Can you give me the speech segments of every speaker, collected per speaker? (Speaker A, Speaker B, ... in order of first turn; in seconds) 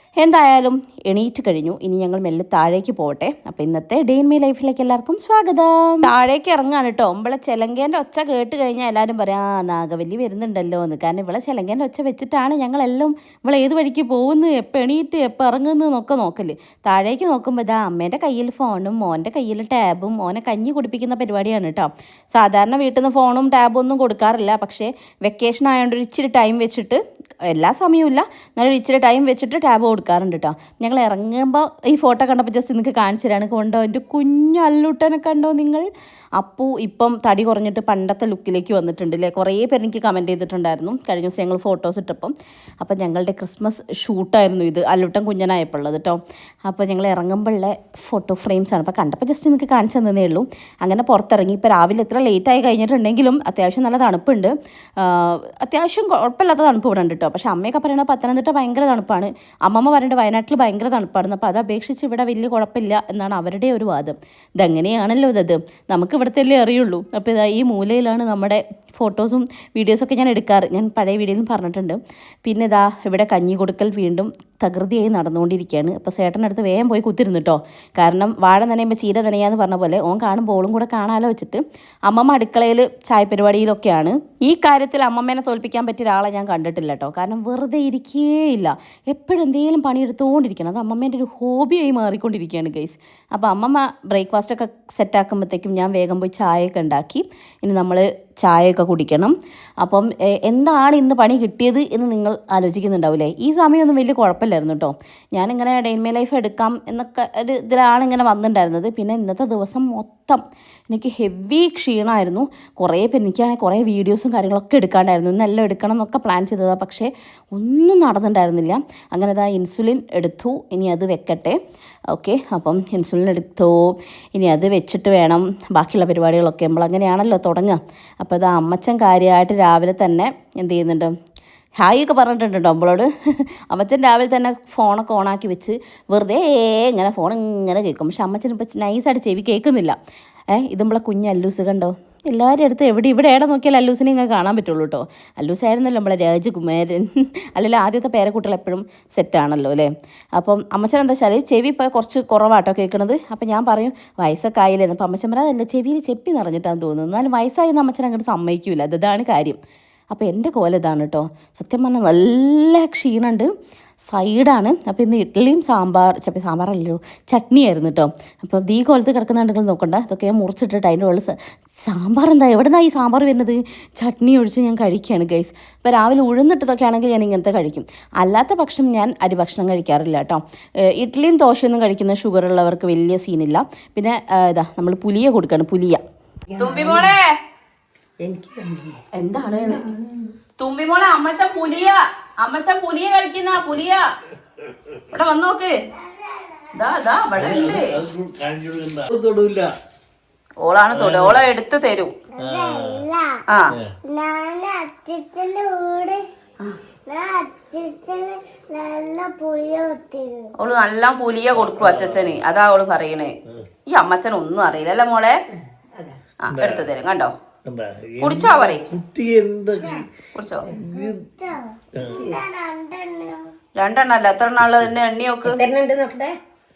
Speaker A: 0.2-121.6, 122.1-131.1, 131.8-140.0, 140.5-159.6, 160.1-163.5, 164.1-186.0, 186.6-187.3, 189.1-189.9, 190.6-194.1, 195.1-195.7, 196.7-198.0, 200.6-202.1, 210.6-213.3, 213.9-215.4, 216.4-217.3, 218.2-218.9, 220.3-220.7, 223.8-225.6
Speaker B: 186.5-187.1, 188.2-189.0, 189.7-190.2, 225.4-226.3
Speaker C: 196.0-196.8, 202.3-203.4, 204.1-206.2, 207.1-210.5, 219.8-220.1, 220.8-223.5
Speaker D: 197.3-199.7, 200.9-201.4, 202.4-203.0, 211.6-212.3, 216.5-216.9, 217.6-220.1, 220.8-221.2, 221.9-222.2